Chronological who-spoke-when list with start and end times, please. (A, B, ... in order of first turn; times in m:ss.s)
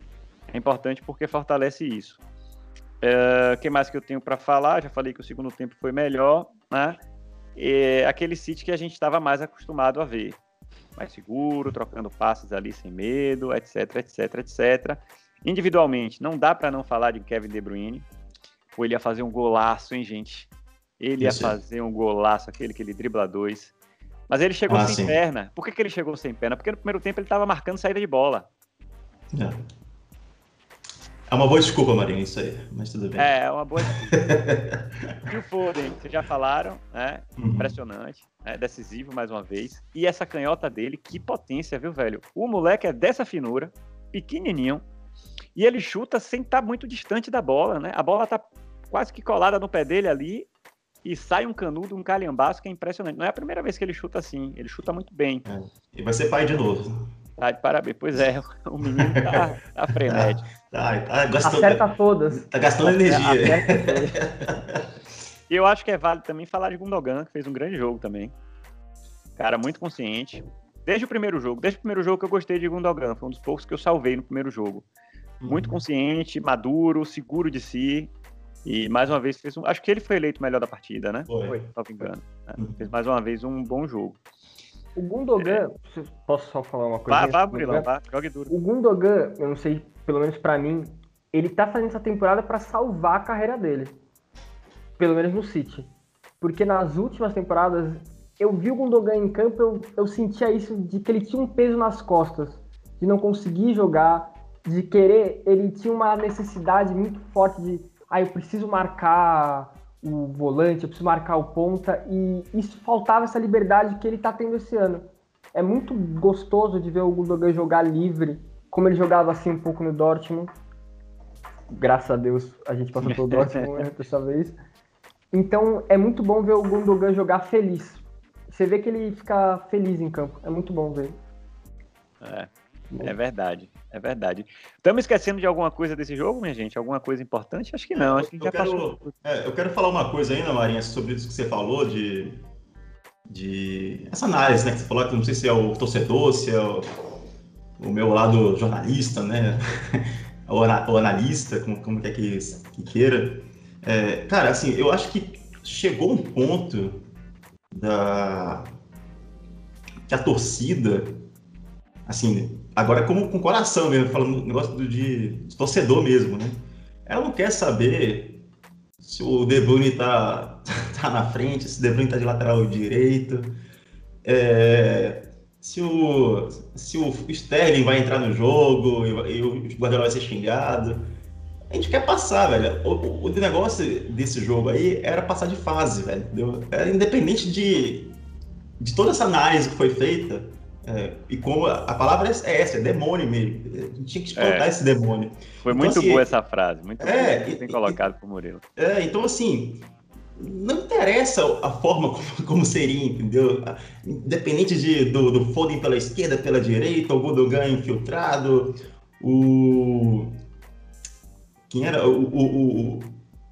0:00.5-0:02.2 A
0:03.0-0:07.0 A
0:07.6-0:10.4 A
0:11.0-0:18.0 A
0:18.8-0:23.7 A
0:21.2-0:21.6 B
0:24.3-0:28.5 A
0:24.7-0:25.2 B
0:29.3-0:29.6 B
0:31.3-0:33.3 B
0:33.2-0:34.3 A
0:33.8-0:35.2 B
0:35.3-0:44.8 A
0:37.4-0:37.8 B
0:45.6-0:50.5 A
0:51.0-0:55.4 A
0:55.5-0:57.1 B
0:57.4-1:00.5 A
0:58.8-0:59.4 B
0:59.9-1:04.9 B
1:01.4-1:04.2 C
1:03.0-1:03.4 A
1:05.5-1:08.3 A
1:09.4-1:14.9 A
1:15.4-1:15.8 B
1:15.5-1:18.1 A
1:18.6-1:24.2 A
1:21.3-1:21.6 B
1:22.6-1:22.9 B
1:25.0-1:27.9 C
1:27.1-1:28.5 A
1:28.5-1:34.0 C
1:35.0-1:35.9 C
1:36.4-2:00.5 C
2:01.7-2:04.6 C
2:03.0-2:03.8 A
2:05.3-2:11.2 C
2:12.2-2:12.5 A
2:13.0-2:19.1 A
2:17.9-2:22.4 B
2:23.3-2:26.8 B
2:27.8-2:37.0 B
2:37.7-2:38.7 B
2:40.1-2:41.2 B
2:42.1-2:48.4 B
2:49.0-2:53.6 B
2:54.2-3:01.1 B
3:01.7-3:08.2 B
3:08.8-3:16.3 B
3:14.4-3:14.7 A
3:15.6-3:18.6 A
3:17.0-3:18.0 B
3:18.8-3:19.9 B
3:20.4-3:30.4 B
3:31.7-3:33.2 B